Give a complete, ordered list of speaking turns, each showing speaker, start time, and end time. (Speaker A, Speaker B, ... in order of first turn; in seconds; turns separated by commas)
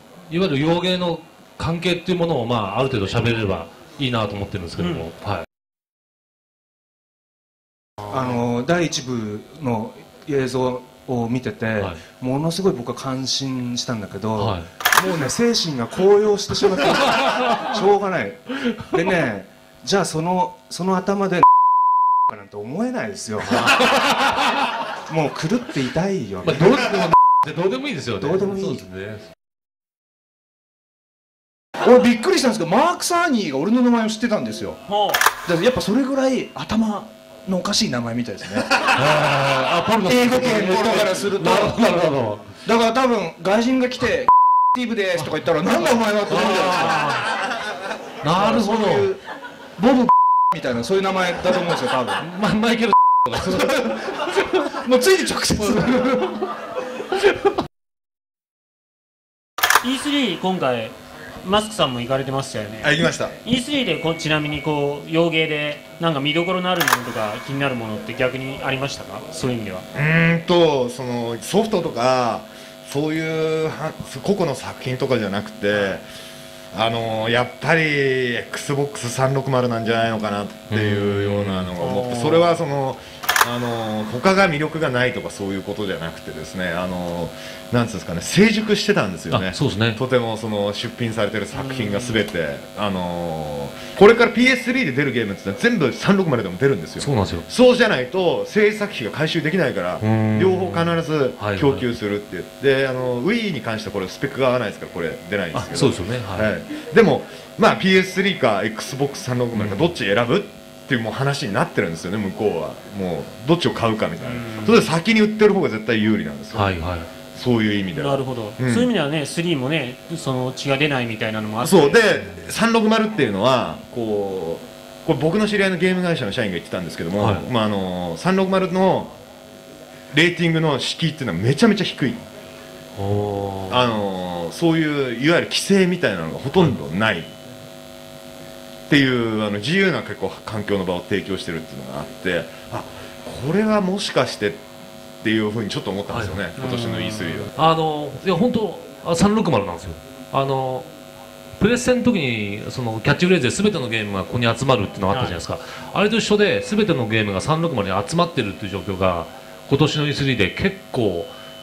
Speaker A: 0.3-5.5, Speaker B: 4.8-5.1, Speaker C: 8.1-21.5, Speaker A: 14.4-14.7, Speaker C: 22.3-23.7, Speaker A: 23.5-24.4, Speaker C: 25.1-26.8, Speaker A: 26.4-29.3, Speaker C: 28.2-28.8, Speaker D: 31.8-34.8, Speaker B: 34.9-35.2, Speaker D: 35.5-38.8, Speaker A: 39.0-42.5, Speaker D: 40.0-41.8, Speaker E: 40.6-41.2, Speaker D: 42.6-47.1, Speaker A: 45.2-47.3, Speaker A: 48.2-49.1, Speaker D: 48.3-49.2, Speaker D: 49.8-52.2, Speaker A: 52.2-54.2, Speaker D: 54.8-56.1, Speaker A: 55.6-56.5, Speaker A: 57.1-57.5, Speaker B: 59.8-69.8, Speaker E: 62.8-63.4, Speaker E: 69.9-76.0, Speaker E: 76.7-118.9, Speaker A: 80.7-81.7, Speaker B: 81.8-82.5, Speaker A: 89.3-90.0, Speaker B: 91.5-92.2, Speaker A: 97.0-97.5, Speaker A: 100.0-101.9, Speaker A: 105.5-106.5, Speaker A: 109.5-109.9, Speaker B: 114.2-114.9, Speaker A: 116.5-117.1, Speaker B: 117.9-122.3, Speaker E: 121.6-129.2, Speaker A: 127.2-127.5, Speaker E: 130.1-132.3, Speaker A: 133.0-134.0, Speaker E: 133.7-137.3, Speaker E: 138.9-144.6, Speaker E: 145.2-147.5, Speaker A: 146.1-146.5, Speaker B: 146.6-147.5, Speaker A: 147.6-150.9, Speaker A: 151.6-161.3, Speaker B: 155.1-155.4